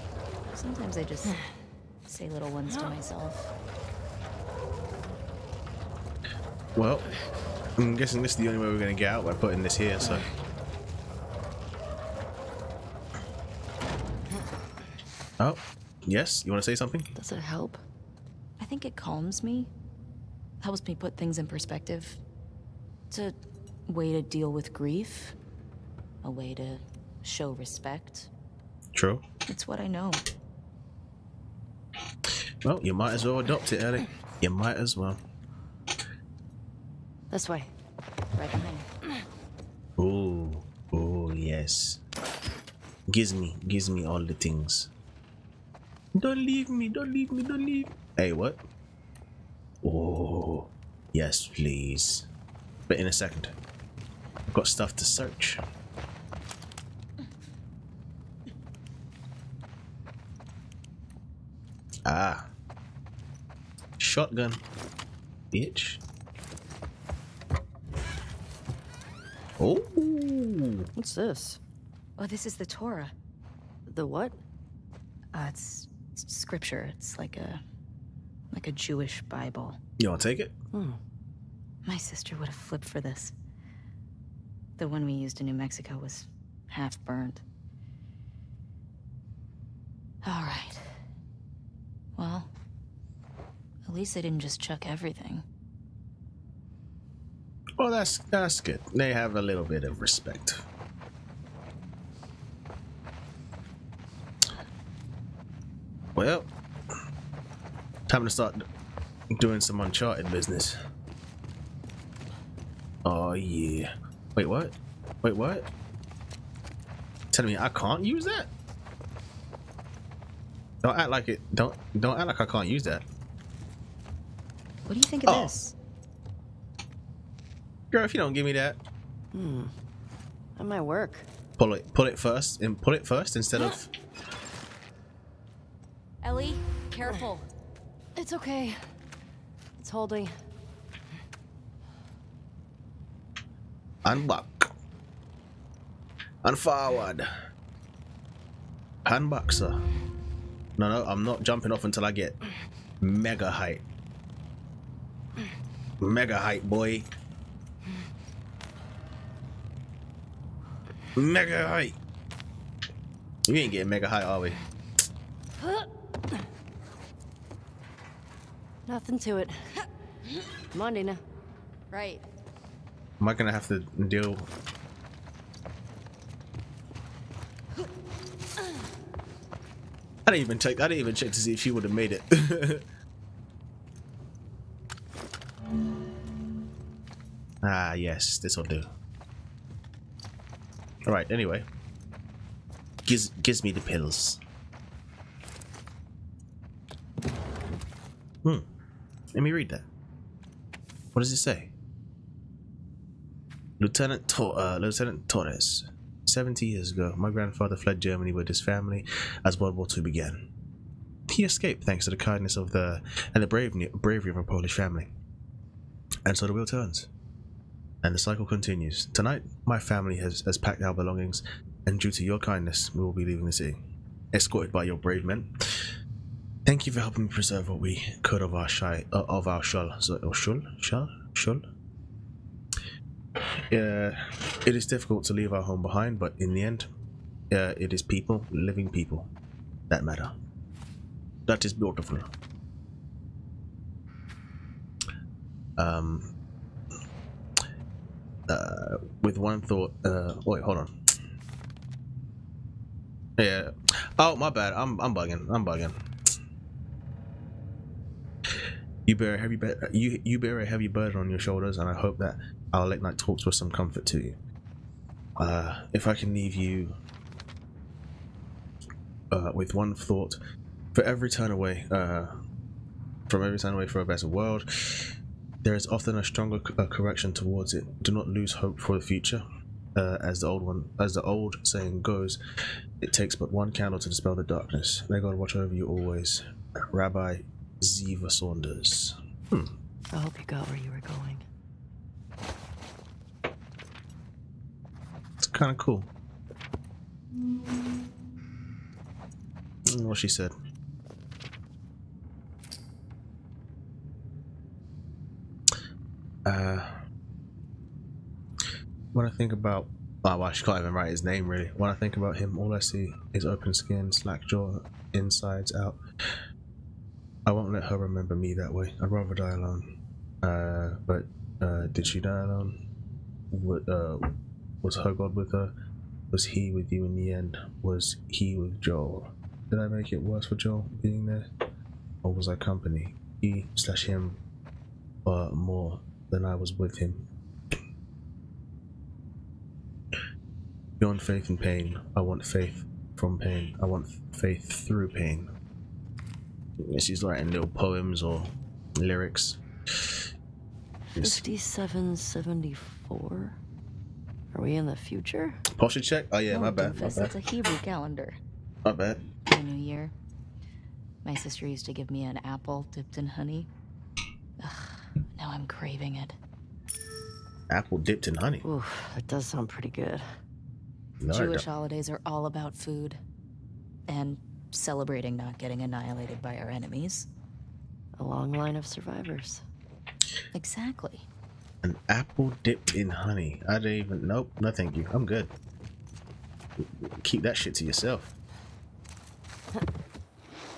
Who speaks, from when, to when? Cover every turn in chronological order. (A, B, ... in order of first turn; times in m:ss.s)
0:00.5-0:01.4 A
0:02.0-0:03.5 A
0:06.8-0:07.1 B
0:07.8-0:10.3 B
0:15.4-0:17.1 B
0:17.2-0:17.8 C
0:18.6-0:19.7 A
0:20.6-0:22.2 A
0:23.9-0:25.3 A
0:26.2-0:28.3 A
0:28.9-0:29.2 B
0:29.5-0:30.2 A
0:32.6-0:35.2 B
0:37.3-0:37.7 C
0:38.4-0:38.9 A
0:40.0-0:42.0 B
0:43.1-0:44.9 B
0:46.2-0:48.6 B
0:49.8-0:52.3 B
0:52.9-0:53.5 B
0:54.5-0:55.6 B
1:02.0-1:02.5 B
1:04.0-1:04.6 B
1:05.5-1:06.0 B
1:09.6-1:10.9 B
1:11.0-1:11.6 C
1:12.2-1:13.1 A
1:13.9-1:14.4 C
1:15.3-1:17.6 A
1:18.5-1:19.8 A
1:20.0-1:20.5 B
1:20.7-1:21.0 C
1:21.8-1:23.3 A
1:24.8-1:27.4 A
1:30.2-1:31.0 A
1:32.2-1:32.5 A
1:33.8-1:35.4 A
1:37.8-1:40.6 B
1:46.1-1:46.5 B
1:48.1-1:48.6 B
1:49.4-1:50.8 B
1:53.0-1:55.7 B
1:57.3-1:58.5 B
2:00.8-2:03.0 B
2:04.9-2:05.7 A
2:05.2-2:05.5 B
2:07.9-2:08.8 B
2:09.3-2:09.7 C
2:10.6-2:11.3 C
2:11.6-2:13.9 B
2:16.2-2:17.4 A
2:18.2-2:18.9 C
2:19.8-2:20.3 C
2:24.0-2:24.7 B
2:26.4-2:27.3 B
2:29.0-2:29.8 B
2:30.8-2:32.4 B
2:33.0-2:33.8 B
2:36.0-2:37.1 B
2:41.1-2:42.0 B
2:43.4-2:44.6 B
2:48.9-2:49.6 C
2:50.7-2:51.2 C
2:51.9-2:52.2 A
2:53.2-2:54.5 B
3:00.2-3:02.8 B
3:07.6-3:08.9 B
3:11.1-3:11.7 B
3:13.0-3:14.4 B
3:19.3-3:19.8 B
3:21.1-3:21.7 B
3:23.8-3:30.5 B
3:31.3-3:35.1 B
3:36.2-3:37.1 B
3:38.0-3:43.8 B
3:44.3-3:45.9 B
3:46.6-3:51.6 B
3:53.4-3:56.9 B
3:57.5-3:59.3 B
3:59.9-4:00.3 B
4:01.5-4:02.3 B
4:05.8-4:06.3 B
4:08.5-4:10.9 B
4:13.4-4:16.3 B
4:18.5-4:24.4 B
4:25.4-4:27.0 B
4:29.3-4:30.4 B
4:30.9-4:32.3 B
4:33.3-4:35.1 B
4:35.6-4:39.4 B
4:39.9-4:42.4 B
4:43.0-4:49.7 B
4:50.1-4:51.4 C
4:55.4-4:56.1 B
4:59.9-5:00.5 B
5:06.4-5:07.0 B
5:09.1-5:16.0 B
5:17.4-5:22.8 B
5:23.5-5:24.3 B
5:24.8-5:25.7 B
5:26.3-5:31.5 B
5:32.2-5:34.4 B
5:35.2-5:37.7 B
5:41.0-5:45.5 B
5:46.8-5:50.2 B
5:51.2-5:51.4 B
5:51.2-5:53.6 C
5:54.5-5:55.6 C
5:55.7-5:57.3 B
5:56.5-5:58.4 A
5:58.8-5:59.2 B
5:59.5-6:00.1 A
6:01.2-6:03.7 A
6:04.6-6:06.4 A
6:07.7-6:08.6 B
6:08.6-6:10.3 C
6:11.2-6:11.6 B
6:11.3-6:13.2 A
6:14.1-6:17.3 A
6:18.2-6:19.6 C
6:20.5-6:21.3 A
6:21.8-6:25.5 B
6:26.8-6:28.3 B